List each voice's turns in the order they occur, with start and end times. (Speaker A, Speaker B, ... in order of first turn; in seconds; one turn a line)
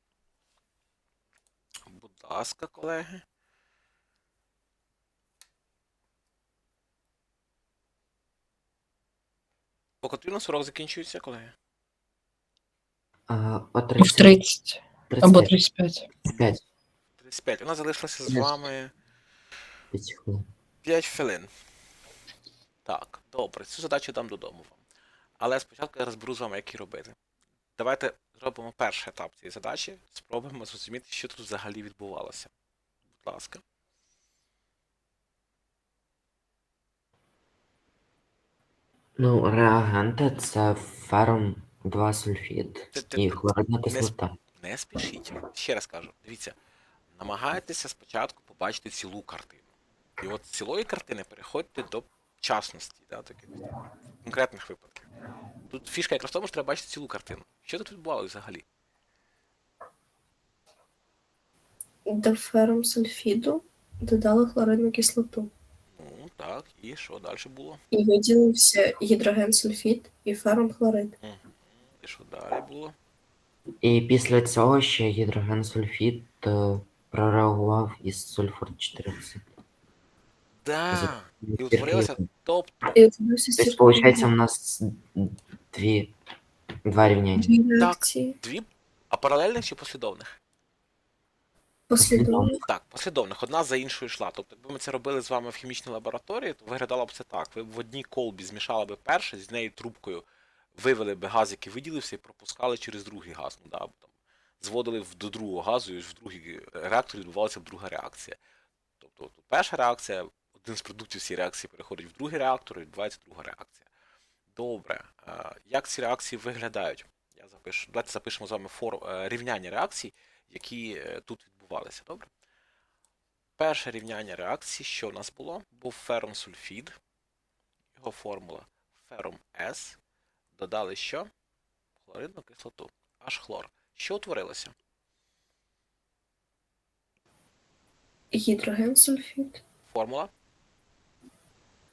Speaker A: 1.9-3.2
Speaker A: 10.0-11.5
Speaker B: 13.3-14.3
Speaker C: 14.0-16.0
Speaker B: 15.1-15.6
Speaker B: 16.3-16.6
Speaker A: 17.2-18.9
Speaker B: 19.9-20.4
Speaker A: 20.8-21.5
Speaker A: 22.8-24.8
Speaker A: 25.4-27.1
Speaker A: 27.8-32.5
Speaker A: 33.2-33.6
Speaker B: 39.2-44.4
Speaker A: 42.9-46.5
Speaker A: 47.1-49.6
Speaker A: 50.2-53.5
Speaker A: 54.2-55.0
Speaker A: 55.7-58.6
Speaker C: 62.0-65.5
Speaker A: 65.9-67.8
Speaker C: 67.9-71.1
Speaker A: 71.2-72.9
Speaker B: 73.8-79.5
Speaker A: 80.6-82.7
Speaker B: 80.9-82.2
Speaker C: 82.9-84.3
Speaker B: 83.6-86.1
Speaker B: 86.8-87.5
Speaker C: 87.4-88.3
Speaker A: 87.8-90.3
Speaker C: 91.9-92.6
Speaker B: 92.0-92.5
Speaker A: 92.6-104.1
Speaker A: 104.6-108.4
Speaker A: 109.0-113.9
Speaker A: 114.5-122.3
Speaker A: 123.6-126.9
Speaker A: 127.9-130.0
Speaker A: 130.6-131.3
Speaker A: 132.0-134.7
Speaker C: 138.3-139.6
Speaker A: 139.9-140.3